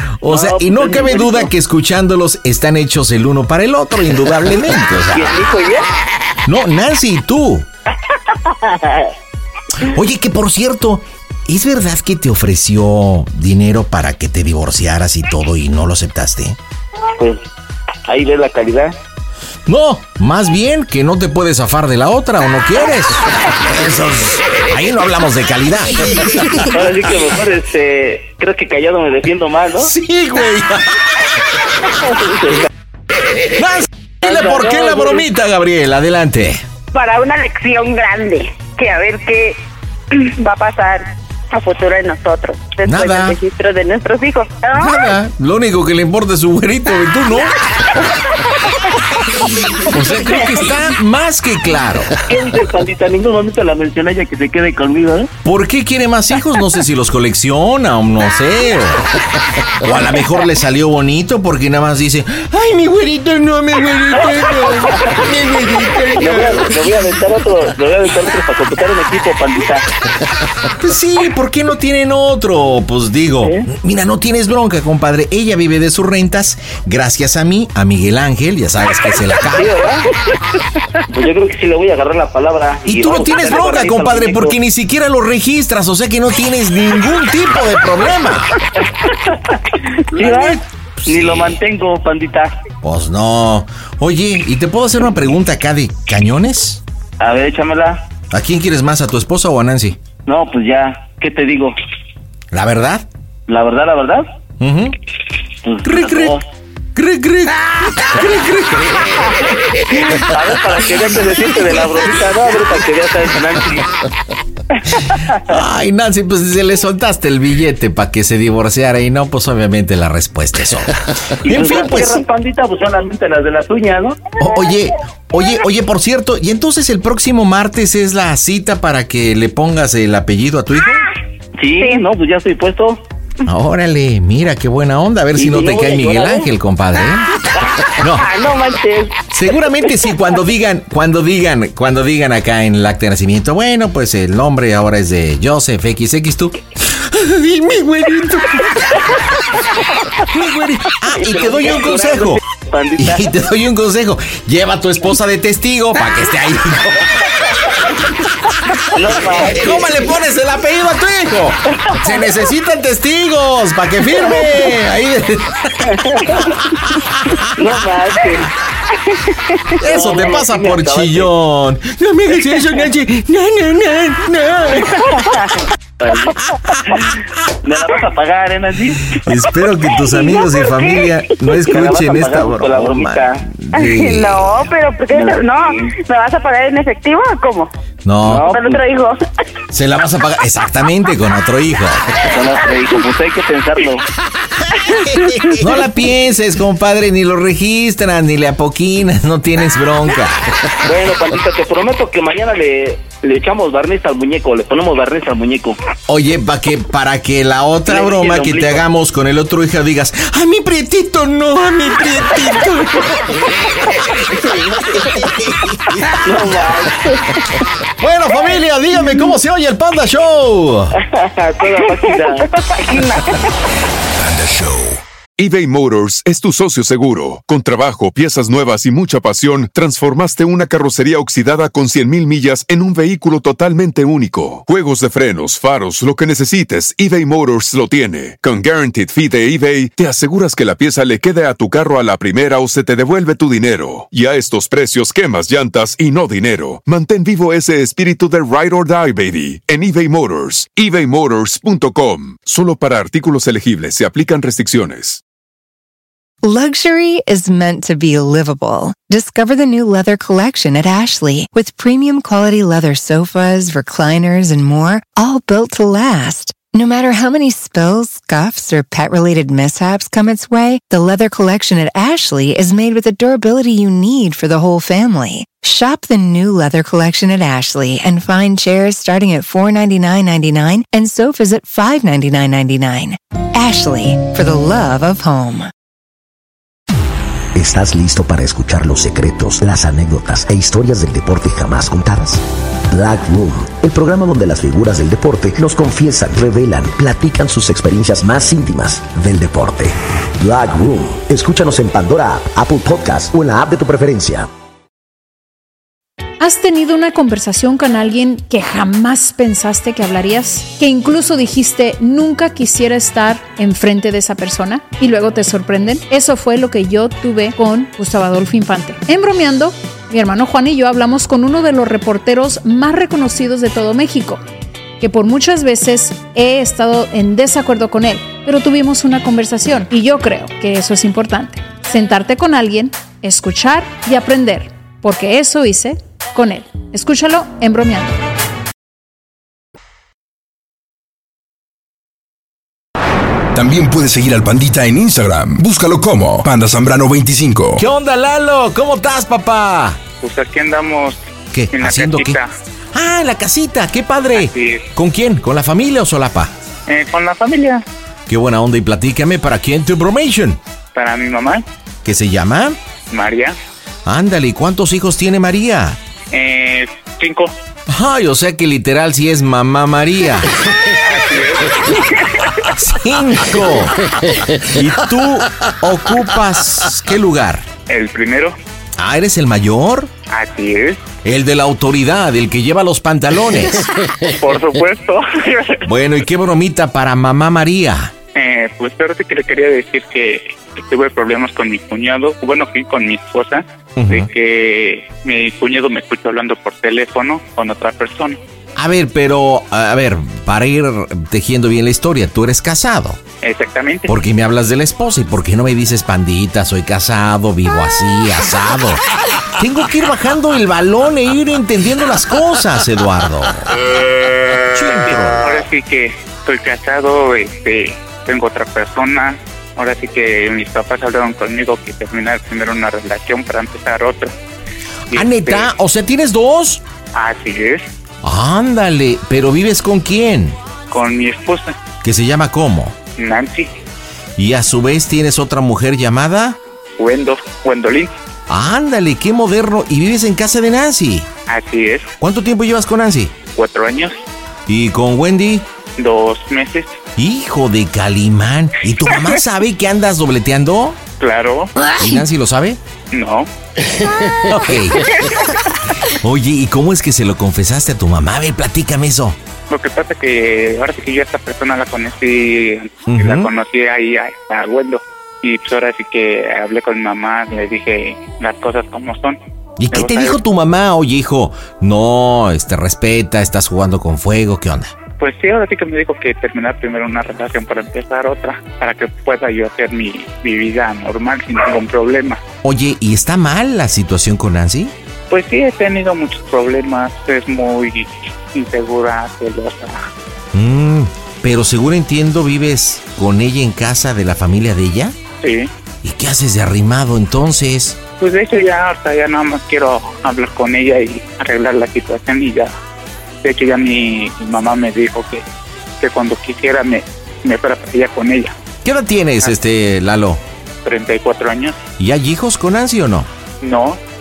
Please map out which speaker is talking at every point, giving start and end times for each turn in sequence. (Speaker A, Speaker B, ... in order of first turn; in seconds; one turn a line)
Speaker A: 0.2-5.4
Speaker B: 0.3-1.5
Speaker B: 5.1-5.9
Speaker A: 6.5-7.7
Speaker B: 8.3-9.1
Speaker A: 9.8-16.6
Speaker B: 18.1-18.9
Speaker A: 19.7-26.6
Speaker B: 26.6-29.9
Speaker A: 29.8-31.3
Speaker B: 32.0-32.7
Speaker A: 33.5-36.6
Speaker B: 34.2-35.2
Speaker C: 36.9-45.0
Speaker A: 42.9-43.4
Speaker A: 44.7-47.6
Speaker A: 49.9-52.2
Speaker B: 52.2-55.3
Speaker A: 55.4-59.1
Speaker A: 59.8-66.9
Speaker B: 64.6-65.1
Speaker B: 66.2-69.9
Speaker A: 70.8-79.7
Speaker B: 79.5-80.1
Speaker B: 81.1-84.6
Speaker A: 82.9-88.6
Speaker B: 90.1-92.5
Speaker A: 90.1-91.6
Speaker A: 92.8-96.8
Speaker B: 97.2-98.1
Speaker A: 98.3-100.0
Speaker B: 100.3-101.8
Speaker A: 102.5-103.1
Speaker B: 103.5-104.3
Speaker A: 104.6-105.0
Speaker B: 105.6-106.4
Speaker A: 105.8-106.4
Speaker A: 107.0-109.4
Speaker B: 109.9-114.0
Speaker A: 115.4-122.2
Speaker B: 121.4-124.2
Speaker A: 124.4-131.1
Speaker B: 131.6-133.0
Speaker A: 133.4-137.3
Speaker B: 135.4-136.5
Speaker B: 137.6-139.3
Speaker A: 138.0-138.3
Speaker A: 139.3-149.2
Speaker A: 150.2-152.4
Speaker B: 151.1-153.3
Speaker A: 153.0-157.4
Speaker A: 158.7-167.4
Speaker B: 158.9-160.1
Speaker B: 165.8-166.6
Speaker B: 167.5-168.5
Speaker A: 169.8-175.2
Speaker B: 169.8-171.3
Speaker B: 174.8-175.4
Speaker B: 176.0-179.3
Speaker A: 176.5-177.1
Speaker A: 179.2-184.7
Speaker C: 180.1-181.0
Speaker B: 181.6-183.4
Speaker C: 183.7-187.7
Speaker B: 185.1-185.9
Speaker A: 188.1-188.5
Speaker B: 188.2-188.8
Speaker C: 188.5-189.2
Speaker A: 189.7-192.2
Speaker B: 192.2-194.1
Speaker A: 195.1-200.7
Speaker B: 200.8-205.8
Speaker A: 206.1-213.5
Speaker B: 207.9-208.8
Speaker A: 215.0-216.2
Speaker B: 216.2-217.2
Speaker A: 218.0-221.0
Speaker B: 221.0-222.5
Speaker C: 221.9-223.5
Speaker A: 224.3-225.0
Speaker D: 225.4-255.2
Speaker E: 256.4-285.7
Speaker F: 287.6-304.5
Speaker G: 306.4-324.4
Speaker G: 325.0-338.2
Speaker H: 343.5-347.8
Speaker A: 347.8-350.0
Speaker I: 350.2-352.5
Speaker A: 351.5-352.4
Speaker A: 352.9-356.5
Speaker I: 354.3-354.9
Speaker I: 356.9-357.8
Speaker A: 358.3-360.6
Speaker I: 360.9-361.6
Speaker A: 362.0-362.8
Speaker I: 363.1-363.6
Speaker A: 364.1-366.0
Speaker I: 366.3-367.5
Speaker A: 367.9-370.5
Speaker I: 371.0-372.5
Speaker A: 372.6-377.7
Speaker I: 377.9-378.6
Speaker A: 379.0-380.1
Speaker I: 380.3-381.1
Speaker A: 381.2-384.1
Speaker I: 384.3-385.9
Speaker A: 385.9-388.1
Speaker I: 388.4-398.4
Speaker A: 394.0-394.3
Speaker A: 398.8-403.2
Speaker I: 403.4-404.1
Speaker A: 404.1-409.0
Speaker A: 409.6-413.8
Speaker A: 414.6-415.6
Speaker I: 415.4-424.3
Speaker I: 425.1-425.7
Speaker A: 425.1-426.8
Speaker I: 427.1-427.9
Speaker A: 428.2-430.6
Speaker I: 430.9-431.8
Speaker A: 432.0-433.0
Speaker I: 433.2-433.7
Speaker A: 434.4-436.6
Speaker I: 437.0-438.1
Speaker A: 438.5-441.3
Speaker I: 441.5-442.1
Speaker A: 442.2-443.4
Speaker I: 443.5-444.2
Speaker A: 444.7-445.7
Speaker I: 446.0-447.0
Speaker A: 447.2-451.0
Speaker I: 451.2-451.9
Speaker A: 451.9-452.8
Speaker I: 453.1-453.5
Speaker A: 454.4-455.1
Speaker A: 456.1-459.4
Speaker I: 459.7-469.4
Speaker A: 463.1-463.5
Speaker A: 469.8-474.9
Speaker I: 469.9-470.4
Speaker I: 475.2-482.4
Speaker A: 482.6-484.9
Speaker I: 485.3-490.1
Speaker A: 490.5-495.2
Speaker I: 495.4-495.7
Speaker A: 496.0-498.0
Speaker I: 498.2-502.7
Speaker I: 503.4-505.4
Speaker I: 506.0-508.5
Speaker A: 508.8-510.4
Speaker I: 510.9-511.8
Speaker A: 512.0-513.3
Speaker I: 513.6-514.0